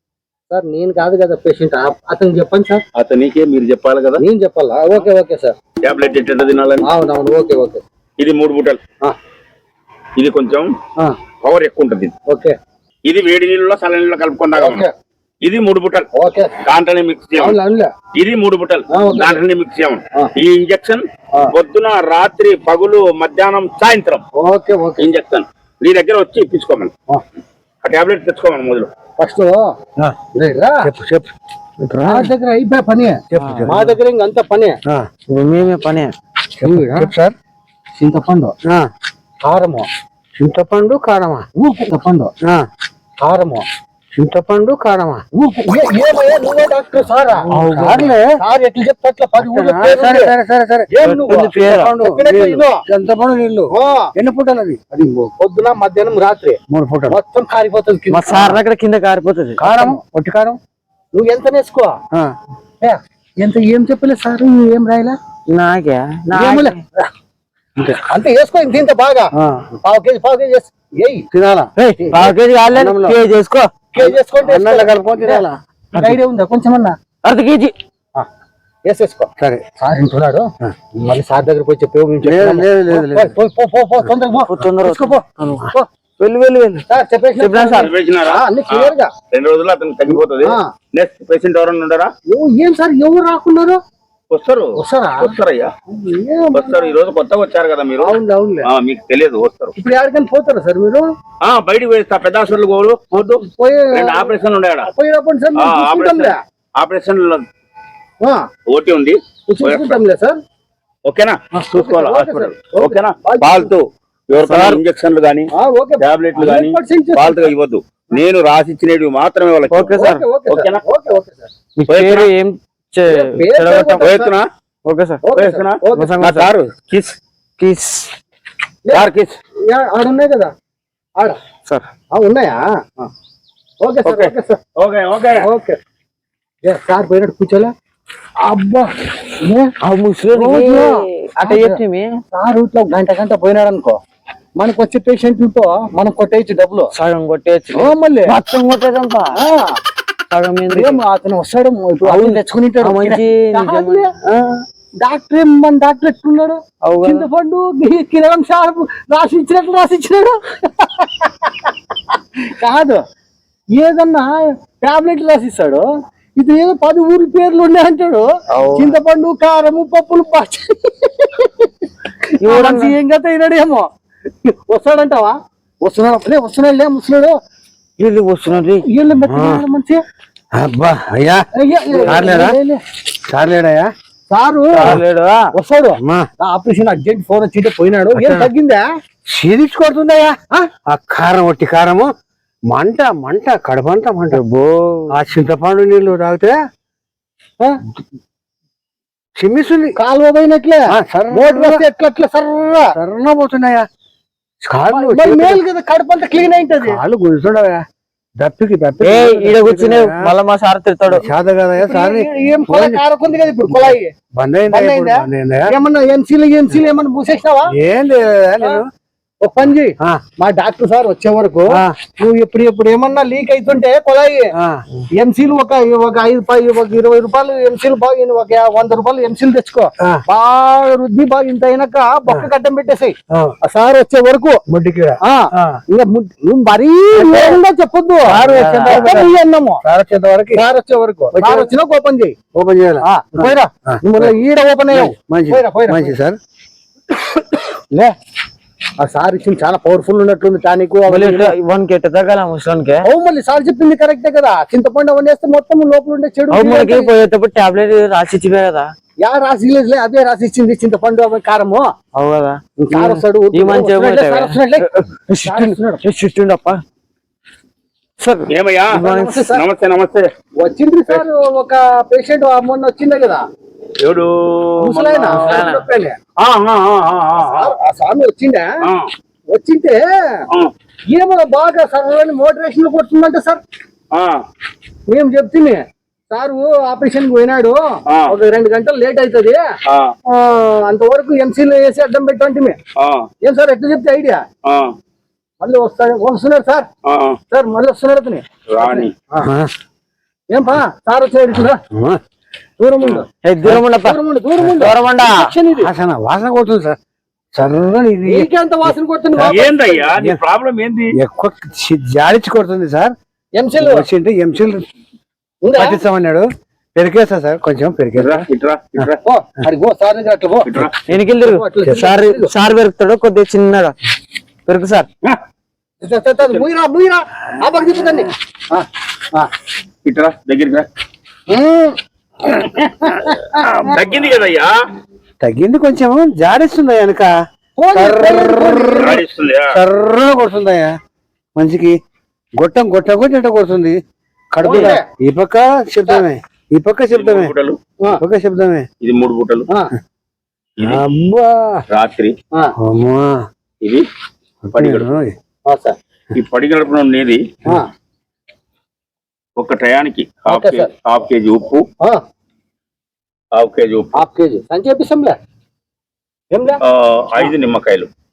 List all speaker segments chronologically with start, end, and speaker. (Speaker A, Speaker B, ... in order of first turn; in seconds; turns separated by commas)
Speaker A: 0.5-2.8, Speaker B: 3.0-4.2, Speaker A: 4.2-5.6, Speaker B: 5.8-6.9, Speaker A: 6.8-7.8, Speaker B: 8.2-8.8, Speaker B: 10.2-10.7, Speaker B: 11.4-12.1, Speaker A: 12.3-12.5, Speaker B: 13.1-14.9, Speaker A: 14.6-14.9, Speaker B: 15.4-16.1, Speaker A: 16.1-16.5, Speaker B: 16.6-17.6, Speaker A: 17.4-17.9, Speaker B: 18.1-24.2, Speaker A: 18.9-19.4, Speaker A: 24.4-25.1, Speaker B: 25.0-26.9, Speaker B: 27.8-28.9, Speaker A: 29.2-29.6, Speaker A: 30.3-30.8, Speaker C: 30.8-31.3, Speaker C: 31.8-32.3, Speaker A: 32.0-34.8, Speaker C: 33.3-34.0, Speaker D: 33.4-33.7, Speaker D: 35.3-36.1, Speaker C: 36.6-37.3, Speaker A: 36.6-37.1, Speaker A: 38.0-38.5, Speaker A: 39.4-39.9, Speaker C: 40.4-41.5, Speaker A: 41.6-42.3, Speaker A: 43.2-43.6, Speaker C: 44.2-45.2, Speaker A: 45.3-47.5, Speaker C: 47.5-48.4, Speaker D: 47.5-48.1, Speaker A: 48.4-50.4, Speaker C: 49.4-55.0, Speaker A: 50.9-52.8, Speaker D: 51.0-51.9, Speaker A: 53.7-54.1, Speaker A: 55.0-56.6, Speaker C: 56.7-57.2, Speaker A: 57.1-58.6, Speaker D: 58.1-59.6, Speaker C: 59.6-60.6, Speaker A: 59.6-60.0, Speaker A: 61.1-62.0, Speaker A: 62.8-65.2, Speaker D: 65.5-66.8, Speaker A: 66.3-66.8, Speaker A: 68.0-69.3, Speaker C: 69.3-69.7, Speaker A: 69.8-71.2, Speaker C: 71.3-71.7, Speaker D: 71.8-73.7, Speaker A: 72.0-72.3, Speaker C: 72.7-73.2, Speaker A: 73.9-77.0, Speaker C: 74.0-76.2, Speaker D: 77.2-77.7, Speaker A: 78.9-85.9, Speaker C: 79.4-79.6, Speaker C: 82.2-83.3, Speaker D: 84.5-85.7, Speaker D: 86.2-86.8, Speaker A: 86.9-89.1, Speaker D: 87.4-87.9, Speaker B: 87.8-92.1, Speaker A: 90.1-90.6, Speaker A: 92.3-93.8, Speaker B: 94.3-95.7, Speaker A: 94.8-95.3, Speaker A: 95.9-97.0, Speaker B: 96.5-99.7, Speaker A: 98.0-98.7, Speaker A: 99.8-101.0, Speaker B: 101.4-103.4, Speaker A: 103.1-106.4, Speaker B: 103.9-104.9, Speaker B: 105.6-107.4, Speaker B: 108.7-110.0, Speaker A: 109.5-110.4, Speaker B: 111.1-115.5, Speaker A: 111.5-113.7, Speaker D: 114.4-114.8, Speaker A: 115.5-117.5, Speaker B: 116.0-120.0, Speaker D: 119.7-120.2, Speaker A: 119.9-121.5, Speaker B: 120.5-120.8, Speaker D: 121.8-124.1, Speaker B: 121.9-122.3, Speaker A: 123.1-124.3, Speaker B: 124.0-124.4, Speaker D: 124.8-125.2, Speaker A: 125.2-126.1, Speaker B: 125.3-127.2, Speaker D: 126.0-126.5, Speaker D: 127.6-128.1, Speaker D: 128.9-129.3, Speaker A: 129.7-130.5, Speaker A: 132.1-133.1, Speaker A: 133.8-134.6, Speaker B: 134.0-135.4, Speaker A: 135.4-135.8, Speaker A: 136.6-137.7, Speaker A: 138.4-138.9, Speaker A: 139.4-139.7, Speaker D: 139.8-142.1, Speaker A: 140.3-141.8, Speaker A: 142.3-144.0, Speaker A: 144.6-146.9, Speaker D: 146.9-149.4, Speaker A: 147.7-148.4, Speaker A: 149.3-149.8, Speaker D: 150.3-151.0, Speaker A: 150.7-154.1, Speaker D: 152.0-154.6, Speaker A: 155.0-163.0, Speaker D: 156.8-157.3, Speaker A: 163.8-165.8, Speaker A: 166.4-171.8, Speaker D: 168.5-168.9, Speaker D: 172.4-172.9, Speaker A: 172.4-173.9, Speaker A: 174.4-177.3, Speaker D: 178.0-178.8, Speaker A: 178.9-180.0, Speaker C: 179.2-179.6, Speaker C: 180.5-181.4, Speaker A: 181.6-182.8, Speaker C: 182.0-182.6, Speaker D: 182.1-182.4, Speaker C: 183.3-183.9, Speaker A: 184.3-184.9, Speaker D: 184.8-185.4, Speaker A: 185.5-188.8, Speaker C: 186.0-186.3, Speaker C: 188.1-188.5, Speaker C: 189.3-190.3, Speaker C: 190.9-192.1, Speaker C: 192.7-194.4, Speaker D: 194.3-195.1, Speaker C: 195.1-196.6, Speaker C: 199.4-199.9, Speaker A: 200.0-202.9, Speaker C: 200.9-201.8, Speaker C: 202.9-203.9, Speaker C: 204.6-205.6, Speaker A: 204.9-207.0, Speaker C: 206.8-207.8, Speaker C: 208.4-210.3, Speaker D: 209.0-211.2, Speaker C: 211.1-213.0, Speaker A: 211.8-214.1, Speaker C: 213.7-215.7, Speaker A: 214.7-217.7, Speaker C: 217.7-218.8, Speaker A: 219.4-224.5, Speaker C: 221.7-221.9, Speaker C: 224.6-224.8, Speaker A: 225.2-234.6, Speaker C: 234.7-235.8, Speaker A: 235.2-239.8, Speaker C: 238.2-239.3, Speaker D: 238.3-239.2, Speaker C: 239.8-240.6, Speaker A: 240.5-242.3, Speaker C: 241.3-241.7, Speaker C: 242.5-244.3, Speaker A: 243.0-246.2, Speaker C: 244.9-246.4, Speaker A: 249.0-251.5, Speaker D: 251.1-253.0, Speaker A: 253.0-257.1, Speaker D: 256.5-258.9, Speaker A: 259.2-261.9, Speaker D: 262.1-266.8, Speaker A: 262.8-264.9, Speaker A: 265.4-266.0, Speaker D: 268.2-269.4, Speaker B: 268.5-269.0, Speaker A: 268.9-269.6, Speaker B: 269.5-270.2, Speaker A: 270.6-273.4, Speaker B: 274.0-275.6, Speaker A: 274.8-276.2, Speaker D: 275.4-275.8, Speaker B: 276.4-277.7, Speaker A: 277.4-278.7, Speaker A: 279.5-280.0, Speaker A: 281.1-283.6, Speaker A: 285.1-289.6, Speaker A: 290.3-292.8, Speaker B: 293.0-293.2, Speaker A: 293.4-294.4, Speaker A: 295.6-296.9, Speaker B: 297.1-297.4, Speaker A: 297.5-299.5, Speaker B: 298.7-299.1, Speaker C: 299.4-299.7, Speaker A: 300.5-301.8, Speaker C: 301.9-302.2, Speaker A: 302.8-305.9, Speaker D: 303.4-304.2, Speaker C: 304.6-304.9, Speaker D: 304.8-305.4, Speaker C: 305.8-307.0, Speaker C: 307.5-309.5, Speaker A: 308.2-310.0, Speaker B: 309.4-311.1, Speaker C: 311.2-313.1, Speaker A: 313.6-314.1, Speaker C: 313.8-314.9, Speaker A: 315.6-316.0, Speaker C: 315.7-318.4, Speaker B: 318.1-319.2, Speaker A: 319.2-320.7, Speaker B: 320.6-321.0, Speaker D: 321.1-323.9, Speaker A: 321.4-322.5, Speaker D: 324.7-325.1, Speaker A: 326.0-329.5, Speaker B: 330.1-330.9, Speaker A: 331.5-333.9, Speaker B: 333.8-334.7, Speaker C: 335.4-337.3, Speaker A: 337.8-339.2, Speaker C: 337.9-339.2, Speaker B: 339.0-339.7, Speaker C: 339.7-340.9, Speaker C: 341.6-342.0, Speaker C: 342.6-344.0, Speaker C: 344.5-347.5, Speaker A: 344.6-345.0, Speaker D: 344.7-344.9, Speaker B: 347.1-347.8, Speaker C: 348.2-348.9, Speaker B: 349.0-349.7, Speaker B: 350.8-351.0, Speaker C: 350.8-351.8, Speaker B: 351.9-352.3, Speaker C: 352.8-353.4, Speaker C: 354.7-355.3, Speaker B: 354.7-355.1, Speaker A: 355.7-355.9, Speaker B: 356.3-357.4, Speaker B: 359.6-361.9, Speaker A: 360.5-360.9, Speaker B: 363.6-364.2, Speaker A: 364.1-365.4, Speaker A: 366.5-366.8, Speaker B: 366.9-368.1